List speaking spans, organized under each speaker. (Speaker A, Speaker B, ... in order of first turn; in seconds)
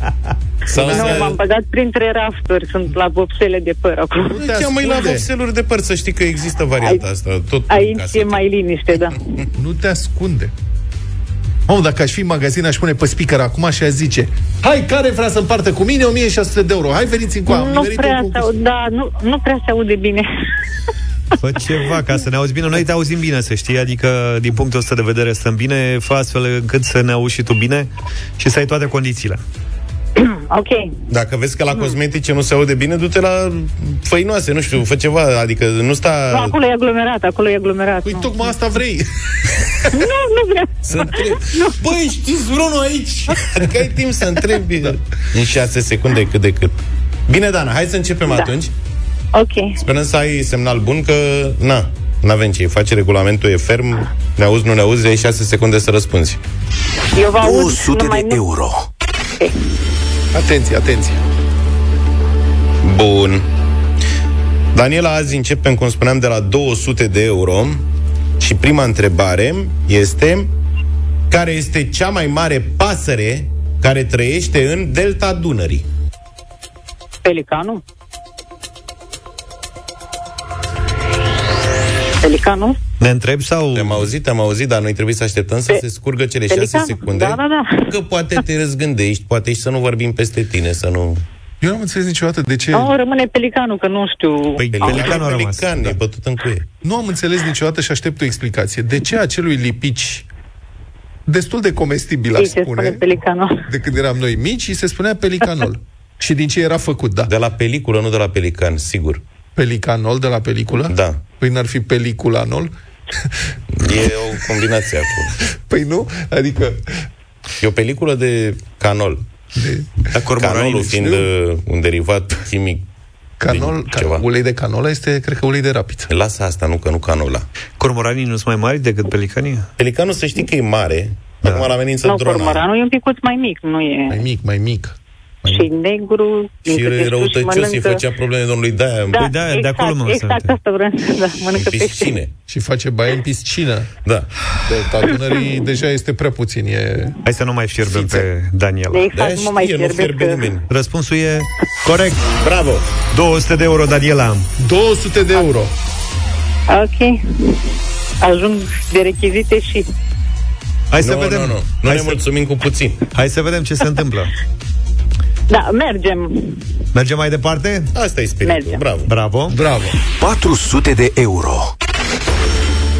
Speaker A: 0.7-1.4, 4.3-9.1, 31.1-36.5, 40.8-46.8, 47.3-48.7, 49.8-56.4, 62.8-63.5, 64.7-67.8, 68.4-70.5, 71.3-75.8, 83.7-91.2, 94.7-96.7, 107.3-109.2, 110.9-111.2, 113.8-115.3, 117.6-119.2, 120.1-122.8, 123.5-124.2, 126.1-127.5, 129.8-132.6, 136.6-139.3, 141.5-142.3, 149.1-150.6, 152.4-152.8, 161.0-163.0, 167.9-169.1
Speaker B: 0.7-4.4, 6.8-7.0, 7.7-9.4, 17.5-20.2, 30.2-30.9, 36.3-38.5, 39.9-41.8, 48.3-48.5, 49.3-49.8, 57.1-58.4, 77.2-77.8, 82.2-82.8, 86.5-87.9, 92.7-95.2, 102.4-103.6, 132.0-134.2, 135.4-138.0, 139.1-142.2, 148.9-150.5, 156.7-157.6, 158.2-159.9, 165.5-166.6, 168.4-168.8
Speaker C: 0.8-1.3, 4.3-5.3, 9.5-10.5, 11.7-18.5, 38.0-39.1, 60.3-61.2, 91.6-92.9, 96.8-100.3, 101.3-103.0, 103.6-107.3, 109.5-112.7, 115.6-117.1, 119.5-121.3, 123.4-126.1, 134.1-135.7, 142.5-143.9, 144.6-147.2, 147.9-148.3, 154.6-155.7, 169.5-169.9
Speaker D: 21.4-29.4, 83.0-84.1, 94.6-96.0, 120.2-120.9, 127.8-129.7, 131.4-131.7, 139.2-140.5, 147.2-149.1, 150.7-152.3, 153.1-154.5, 160.9-162.2, 163.1-164.3, 166.9-167.9, 169.1-169.6
Speaker E: 57.4-58.9, 170.2-171.7